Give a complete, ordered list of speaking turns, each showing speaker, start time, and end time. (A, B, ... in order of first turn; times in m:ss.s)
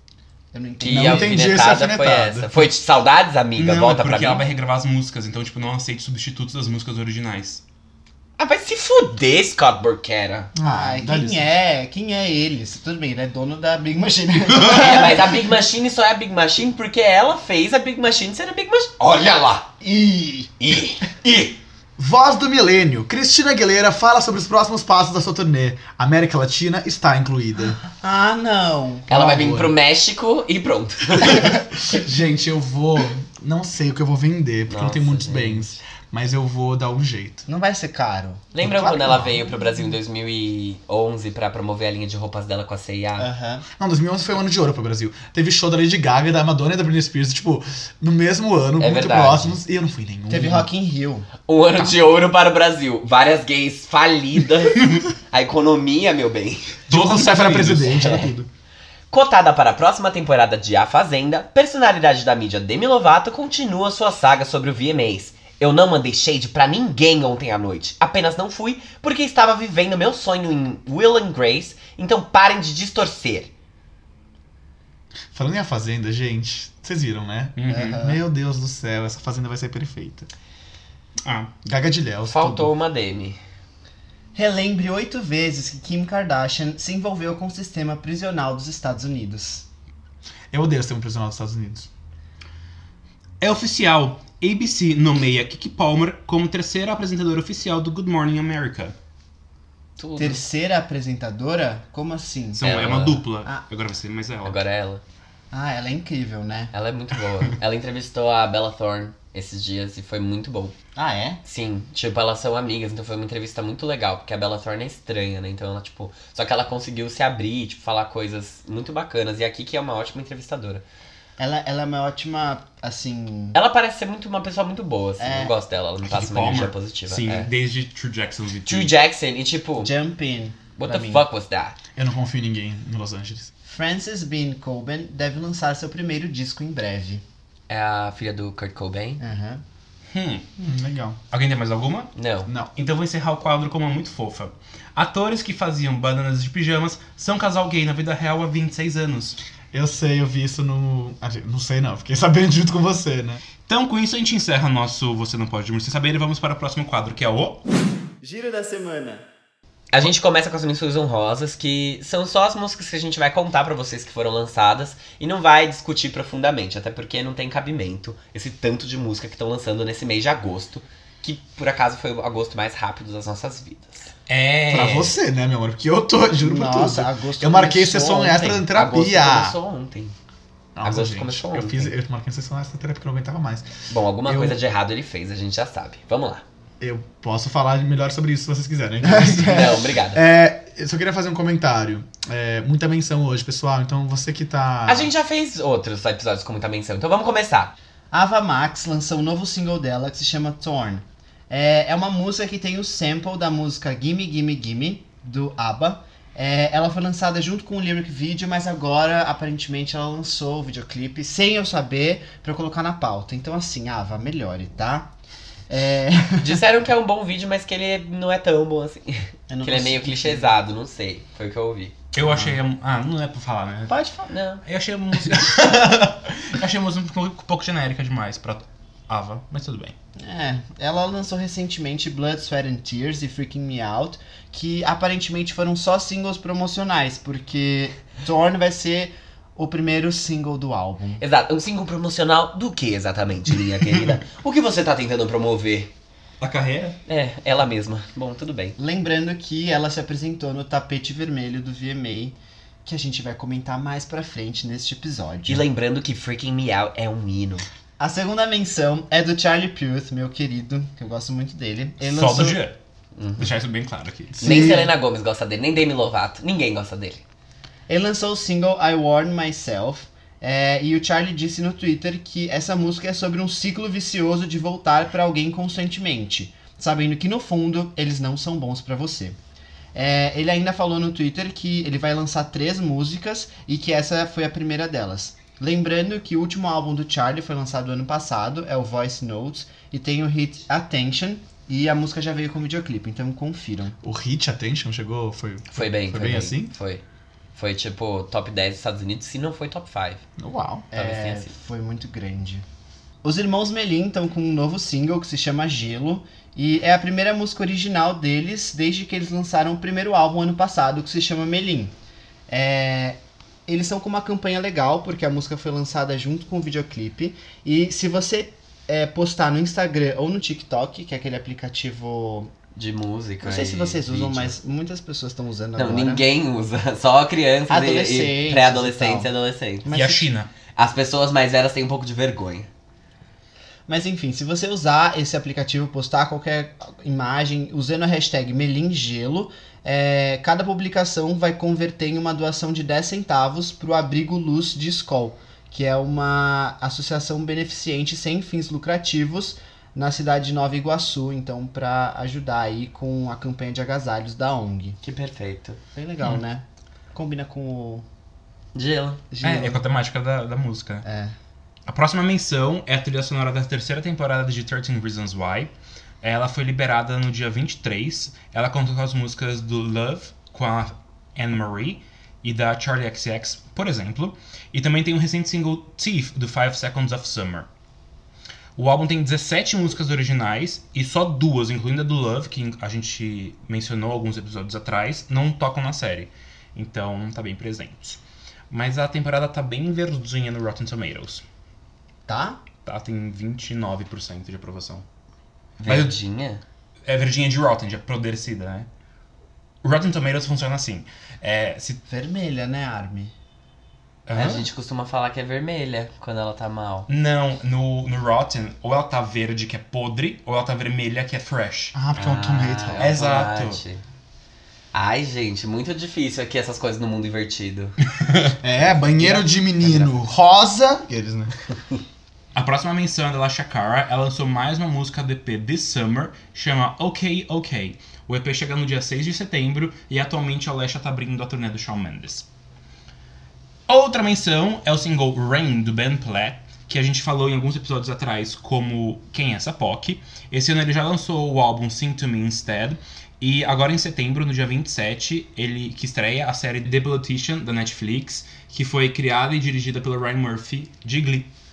0:00.5-0:01.6 A
0:00.8-0:04.4 B
0:00.9-0:02.7 C
0:03.6-0:07.6 D
0:08.4-0:10.5 B
0:10.6-0:11.5 C
0:10.6-0:15.5 A
0:14.6-0:19.7 B
0:14.6-0:15.0 D
0:19.8-0:20.5 A
0:20.6-0:21.6 B
0:22.0-0:27.8 C
0:28.0-0:29.1 A
0:29.1-0:29.7 C
0:29.1-0:31.5 B
0:31.2-0:37.5 C
0:34.7-0:35.8 B
0:37.5-0:38.5 A
0:38.5-0:43.3 B
0:38.6-0:39.5 C
0:43.2-0:43.6 A
0:43.8-0:50.7 C
0:48.8-0:49.6 B
0:50.3-0:51.3 A
0:51.5-0:56.7 B
0:56.9-0:58.5 C
0:56.9-0:58.1 D
0:57.9-0:58.3 B
0:59.1-1:13.5 B
1:15.3-1:20.3 C
1:17.6-1:18.1 D
1:17.7-1:18.2 A
1:21.2-1:21.5 D
1:21.6-1:22.7 C
1:22.3-1:23.4 B
1:24.4-1:29.7 A
1:30.5-1:31.9 C
1:33.4-1:38.9 D
1:40.0-1:40.4 B
1:40.2-1:43.6 A
1:42.6-1:44.6 D
1:42.6-1:43.2 B
1:44.4-1:45.0 B
1:45.5-1:46.7 A
1:46.7-1:50.8 B
1:51.0-1:51.4 A
1:51.4-2:00.8 B
2:01.4-2:03.6 A
2:03.5-2:07.5 B
2:05.2-2:05.5 A
2:06.0-2:08.9 D
2:08.7-2:09.9 B
2:09.8-2:11.2 A
2:10.8-2:11.8 B
2:12.0-2:13.5 C
2:13.7-2:17.2 A
2:17.7-2:19.2 B
2:19.2-2:19.6 A
2:20.1-2:20.4 D
2:20.6-2:21.2 C
2:21.3-2:22.1 D
2:22.2-2:22.5 B
2:22.8-2:29.4 D
2:29.7-2:33.4 C
2:33.7-2:37.6 D
2:38.2-2:39.2 A
2:39.9-2:54.1 B
2:54.3-2:55.2 D
2:54.7-2:59.6 C
2:56.4-2:58.6 A
2:58.7-3:00.2 B
3:00.8-3:03.7 C
3:00.8-3:01.9 B
3:03.9-3:06.4 B
3:04.3-3:04.6 C
3:06.8-3:15.1 C
3:09.0-3:09.9 A
3:09.4-3:10.2 B
3:14.9-3:17.7 B
3:18.1-3:35.1 A
3:35.7-3:36.6 A
3:36.4-3:42.0 B
3:39.5-3:40.5 A
3:42.1-3:43.9 D
3:42.2-3:42.5 A
3:43.9-3:44.3 A
3:44.3-3:44.6 B
3:44.6-3:50.0 D
3:50.2-4:01.2 A
4:01.2-4:05.9 B
4:06.4-4:07.0 D
4:07.1-4:08.8 B
4:08.8-4:15.7 A
4:15.5-4:17.7 B
4:18.0-4:22.6 A
4:22.0-4:22.8 D
4:23.4-4:24.4 D
4:24.3-4:24.9 C
4:24.4-4:27.2 B
4:24.4-4:24.9 A
4:27.9-4:39.4 A
4:39.9-4:54.0 A
4:54.0-4:56.8 C
4:55.7-4:57.0 B
4:57.6-5:00.2 B
5:00.4-5:00.9 C
5:00.9-5:02.6 A
5:00.9-5:01.5 B
5:03.2-5:11.9 A
5:12.5-5:22.5 A
5:22.8-5:24.5 B
5:23.4-5:26.3 A
5:25.8-5:29.9 B
5:27.7-5:29.3 A
5:29.8-5:30.3 A
5:29.9-5:30.5 D
5:30.8-5:32.7 B
5:33.9-5:55.0 A
5:55.0-5:55.8 B
5:56.0-5:58.0 A
5:58.8-5:59.2 B
5:59.3-5:59.8 A
5:59.4-6:01.0 D
6:01.0-6:01.3 A
6:01.9-6:17.7 D
6:18.8-6:31.4 D
6:32.3-6:32.6 A
6:32.8-6:35.0 D
6:35.8-6:36.6 B
6:35.9-6:36.1 D
6:37.1-6:38.9 D
6:39.8-6:42.0 D
6:42.1-6:43.3 A
6:44.3-6:44.6 D
6:44.3-6:47.1 B
6:47.1-6:52.0 D
6:52.0-6:53.1 C
6:52.2-6:54.0 B
6:53.0-6:53.8 D
6:54.9-6:58.0 B
6:58.2-6:58.5 D
6:58.6-7:01.6 C
6:59.2-7:00.1 B
7:02.6-7:12.5 D
7:13.9-7:31.5 D